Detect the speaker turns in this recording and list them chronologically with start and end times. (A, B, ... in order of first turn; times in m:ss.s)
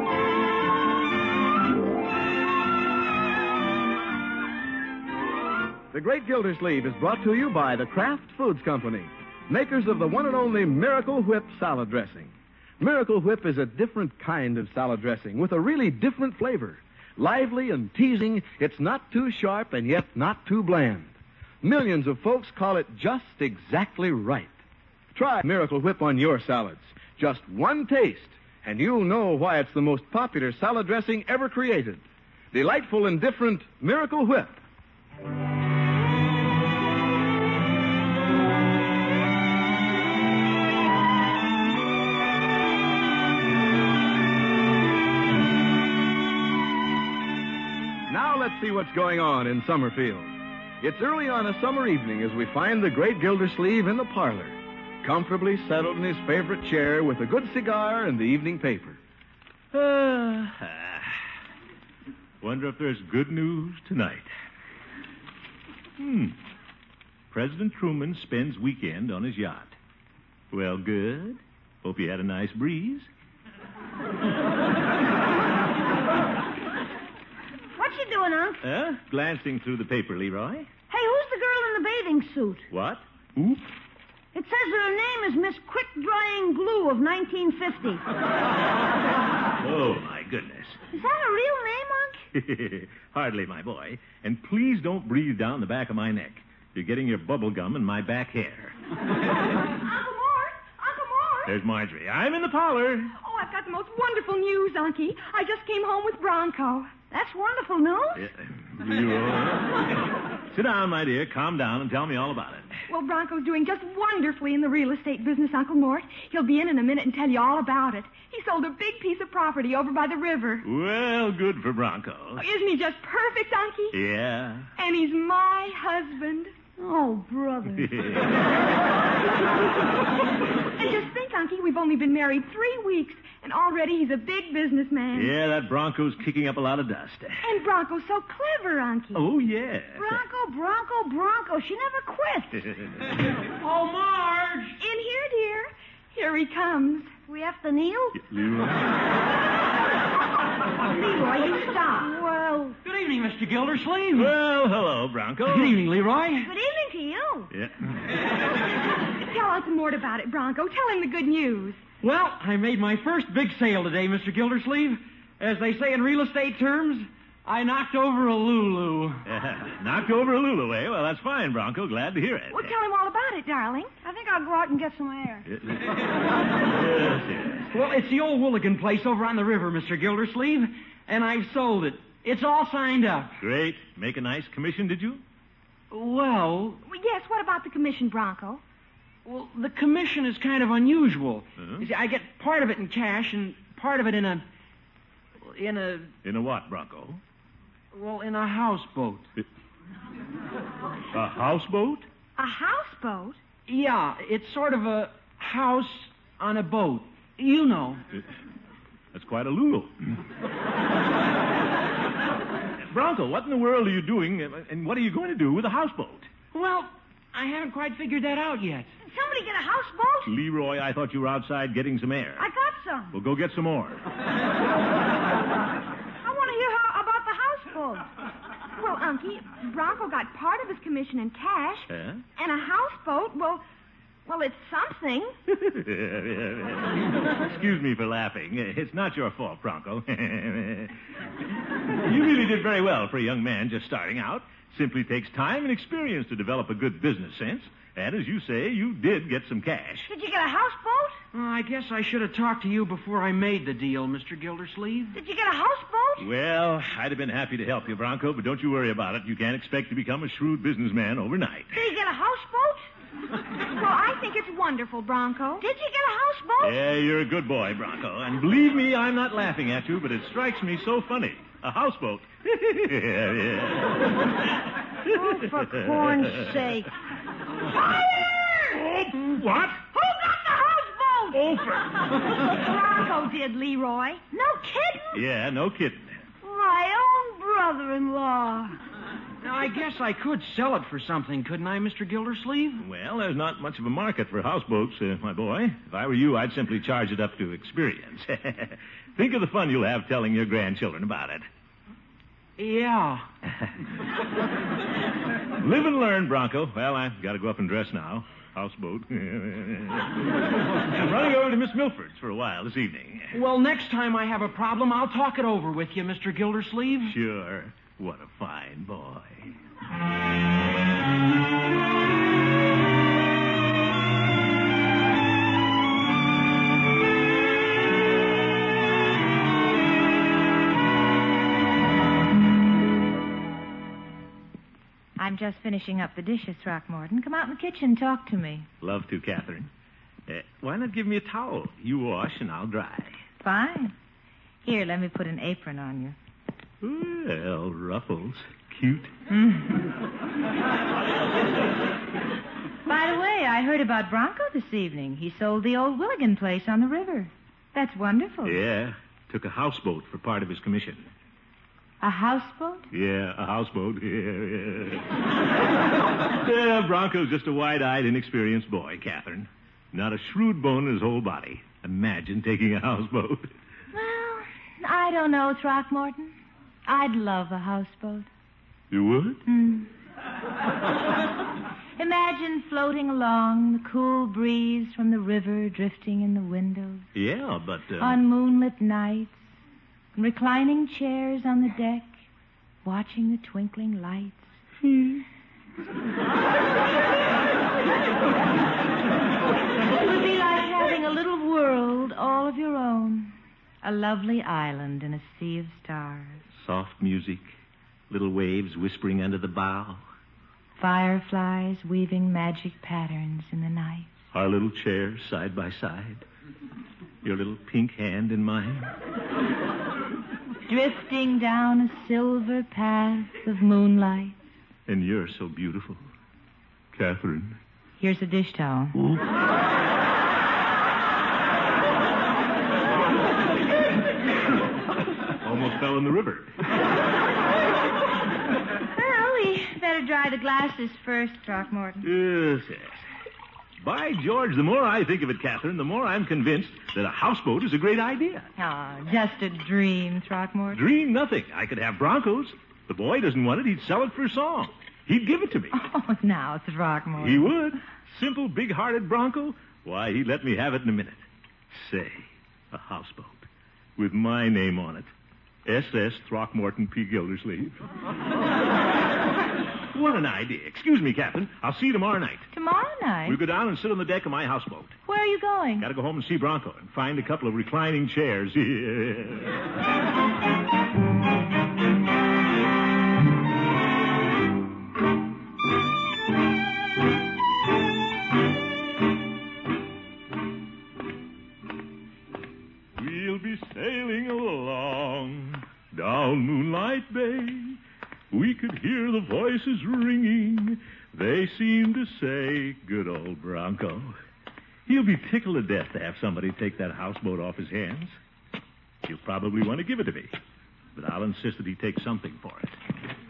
0:05.9-0:24.5 A
0:25.1-0:34.6 A
0:48.1-0:59.0 A
0:59.7-1:01.2 B
1:02.4-1:04.3 B
1:06.0-1:06.4 B
1:07.3-1:09.8 B
1:10.5-1:13.1 B
1:17.8-1:18.6 C
1:18.6-1:20.7 B
1:20.9-1:22.7 C
1:22.7-1:23.7 B
1:24.3-1:28.0 C
1:29.6-1:30.8 B
1:30.9-1:32.2 C
1:32.3-1:38.8 B
1:39.8-1:41.5 D
1:41.4-1:43.1 B
1:43.2-1:47.0 D
1:47.1-1:48.3 C
1:48.1-1:52.7 B
1:52.9-2:00.6 D
2:00.6-2:02.4 B
2:02.4-2:04.0 D
2:03.9-2:04.7 B
2:04.8-2:06.5 D
2:06.8-2:08.0 C
2:07.7-2:08.4 B
2:10.7-2:15.3 D
2:15.1-2:17.5 B
2:17.4-2:19.3 D
2:19.1-2:20.2 B
2:20.0-2:22.7 C
2:23.4-2:24.8 E
2:24.8-2:27.2 D
2:27.2-2:28.2 C
2:28.2-2:28.9 B
2:30.8-2:32.1 D
2:31.6-2:32.8 C
2:32.8-2:34.3 E
2:34.1-2:35.9 B
2:35.4-2:36.5 E
2:36.4-2:37.5 C
2:37.5-2:38.1 B
2:39.2-2:41.8 D
2:42.0-2:49.2 E
2:49.2-2:52.8 B
2:52.5-2:54.0 D
2:54.0-2:55.4 C
2:55.5-2:57.7 B
2:57.7-3:03.3 E
3:03.4-3:05.2 B
3:05.9-3:06.8 E
3:06.8-3:08.6 D
3:09.2-3:14.4 E
3:11.6-3:11.9 B
3:15.4-3:16.1 E
3:16.2-3:17.2 B
3:17.9-3:19.3 E
3:21.1-3:22.0 B
3:22.4-3:23.4 D
3:23.6-3:28.0 E
3:29.1-3:30.2 B
3:32.9-3:36.3 B
3:36.5-3:38.9 E
3:39.0-3:40.3 C
3:40.2-3:42.5 B
3:42.4-3:43.2 C
3:43.1-3:44.0 B
3:46.2-3:48.1 C
3:48.8-3:53.6 D
3:51.9-3:52.2 B
3:54.2-3:55.3 D
3:55.5-4:00.9 B
4:02.0-4:10.1 B
4:10.1-4:11.2 C
4:11.3-4:15.2 E
4:15.1-4:16.3 C
4:16.2-4:21.8 B
4:21.7-4:22.8 C
4:23.7-4:25.6 D
4:25.6-4:26.8 C
4:26.6-4:34.1 B
4:35.1-4:36.9 C
4:35.1-4:36.6 B
4:37.6-4:38.8 C
4:38.7-4:39.8 B
4:39.9-4:41.4 C
4:41.3-4:42.5 B
4:42.4-4:45.2 C
4:42.5-4:44.2 D
4:45.1-4:46.2 B
4:46.4-4:48.7 C
4:49.4-4:52.8 E
4:52.8-5:01.4 B
5:02.6-5:03.3 E
5:05.6-5:13.4 B
5:13.3-5:17.1 E
5:17.0-5:19.5 B
5:35.2-5:38.7 F
5:38.8-5:39.7 B
5:40.3-5:43.2 B
5:43.4-5:43.9 F
5:44.6-5:46.2 F
5:46.8-5:49.1 B
5:49.3-5:49.8 F
5:52.8-5:58.6 F
5:58.4-6:01.1 B
6:02.0-6:02.9 F
6:02.9-6:05.0 B
6:06.3-6:13.5 B
6:13.9-6:16.3 F
6:16.8-6:18.3 F
6:18.9-6:19.4 B
6:19.4-6:19.9 F
6:22.0-6:27.1 F
6:27.1-6:28.2 B
6:28.0-6:29.5 F
6:30.2-6:32.2 F
6:32.8-6:35.2 F
6:39.9-6:46.4 F
6:46.5-6:47.5 B
6:48.1-6:50.0 B
6:50.8-6:54.1 F
6:54.3-6:56.2 B
6:57.2-6:58.9 B
7:00.7-7:04.4 F
7:04.9-7:06.0 B
7:06.9-7:07.6 B
7:08.0-7:09.0 F
7:15.4-7:16.6 B
7:18.9-7:22.0 F
7:22.0-7:23.1 B
7:23.8-7:28.5 B
7:28.6-7:30.8 F
7:30.7-7:35.8 B
7:35.7-7:37.5 F
7:37.2-7:45.1 B
7:45.6-7:47.8 B
7:49.9-7:52.5 B
7:52.5-7:53.4 F
7:53.2-7:55.0 B
7:55.0-7:55.9 F
7:55.8-7:59.5 B
8:13.0-8:17.8 B
8:18.3-8:24.2 B
8:24.8-8:28.2 B
8:29.0-8:30.3 B
8:31.0-8:32.8 B